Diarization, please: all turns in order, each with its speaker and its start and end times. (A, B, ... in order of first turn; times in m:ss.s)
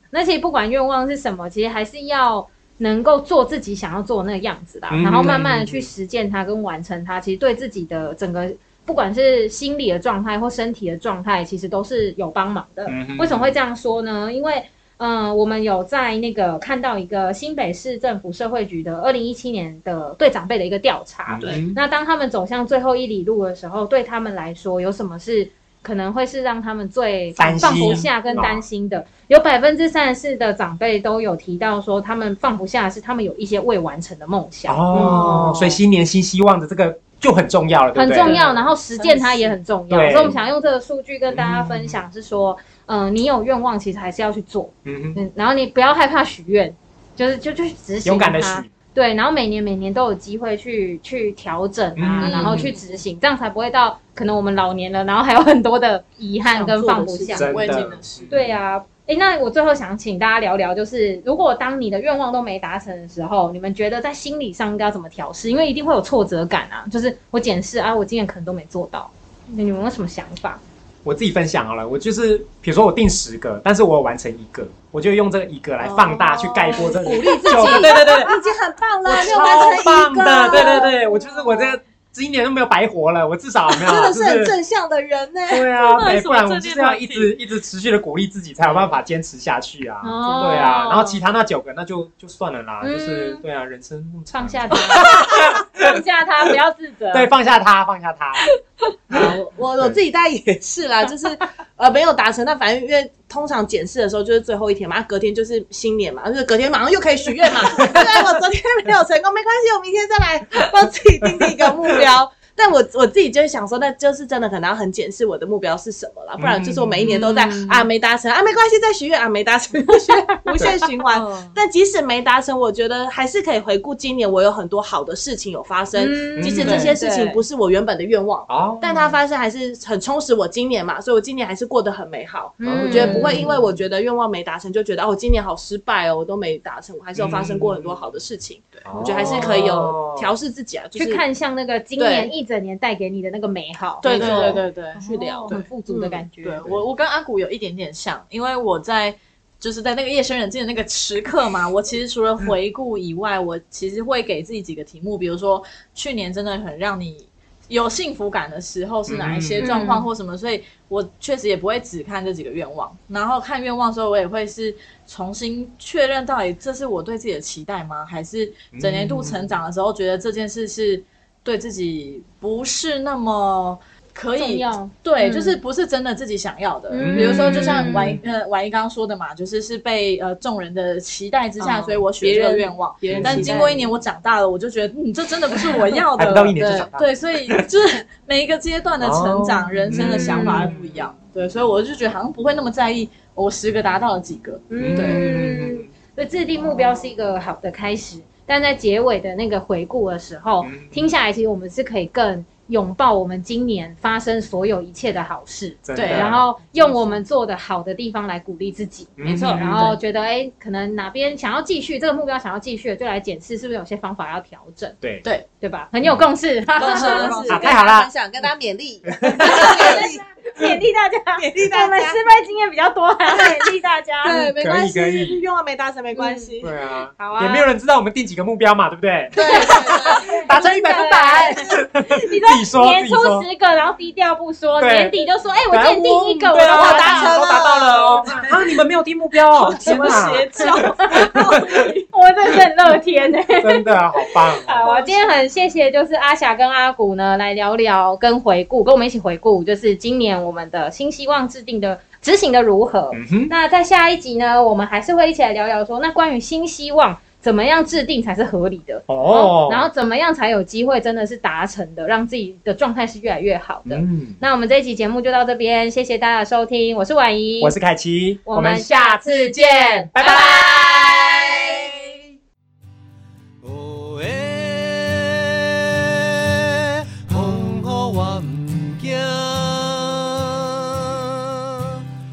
0:00.1-0:35.6 A
0:04.9-0:05.9 B
0:12.9-0:13.6 B
0:21.3-0:21.8 B
0:27.4-0:28.7 B
0:27.6-0:28.0 C
0:34.7-0:38.4 B
0:35.0-0:35.6 C
0:38.0-0:57.5 A
0:38.2-0:39.5 D
0:39.9-0:40.4 B
0:41.3-0:42.0 B
0:44.8-0:45.2 B
0:48.0-0:48.7 B
0:52.0-0:52.7 B
0:52.2-0:52.8 D
0:56.4-0:57.5 C
0:57.3-0:58.3 D
0:57.3-0:58.6 B
0:58.3-1:10.6 A
1:11.0-1:18.3 B
1:15.8-1:21.0 C
1:17.3-1:18.2 A
1:19.0-1:24.5 B
1:20.5-1:21.6 A
1:23.7-1:25.7 C
1:25.5-1:36.0 B
1:25.8-1:27.4 D
1:30.0-1:31.2 A
1:32.8-1:33.4 A
1:34.3-1:37.3 A
1:37.1-1:38.4 B
1:39.1-2:21.2 C
1:56.4-1:57.1 B
1:57.1-1:57.7 A
1:57.1-1:57.8 D
2:01.0-2:01.6 D
2:06.0-2:07.4 A
2:06.4-2:06.8 B
2:06.6-2:06.9 D
2:08.5-2:09.2 B
2:12.6-2:13.5 A
2:12.6-2:13.7 B
2:17.2-2:18.0 B
2:18.8-2:20.3 B
2:21.0-2:26.6 A
2:22.0-2:22.3 C
2:24.0-3:15.2 D
2:24.0-2:25.6 C
2:24.2-2:24.5 B
2:39.1-2:39.9 B
2:39.6-2:40.1 A
2:48.7-2:49.6 B
2:54.4-2:55.6 A
2:56.9-2:58.2 A
2:57.0-2:58.3 B
3:01.6-3:02.0 A
3:02.2-3:03.9 C
3:03.1-3:03.6 B
3:06.2-3:07.7 B
3:06.6-3:06.9 A
3:09.0-3:11.1 B
3:09.9-3:10.7 A
3:14.7-3:35.0 A
3:14.8-3:15.9 B
3:20.6-3:20.9 B
3:25.8-3:26.4 B
3:26.0-3:27.2 D
3:29.2-3:29.9 B
3:29.2-3:29.7 C
3:29.6-3:30.0 D
3:35.6-3:37.6 A
3:36.8-3:37.7 D
3:36.8-3:40.8 C
3:37.5-3:38.1 B
3:39.1-3:39.9 B
3:39.4-3:44.5 A
3:41.4-3:42.2 C
3:43.4-3:43.6 C
3:44.2-3:46.7 C
3:44.6-3:45.4 B
3:46.2-3:46.5 A
3:46.6-3:53.5 B
3:47.2-3:47.7 A
3:49.4-3:50.4 C
3:49.4-3:57.4 A
3:54.8-3:55.2 B
3:55.7-4:01.9 B
3:56.5-3:58.4 C
3:57.2-3:58.5 D
3:59.6-4:02.0 D
4:00.6-4:01.3 A
4:02.1-4:27.8 A
4:03.6-4:04.9 B
4:04.8-4:05.4 D
4:13.1-4:13.5 B
4:19.1-4:19.9 B
4:23.9-4:24.4 B
4:27.6-4:31.5 B
4:28.5-4:30.8 A
4:33.6-4:42.0 E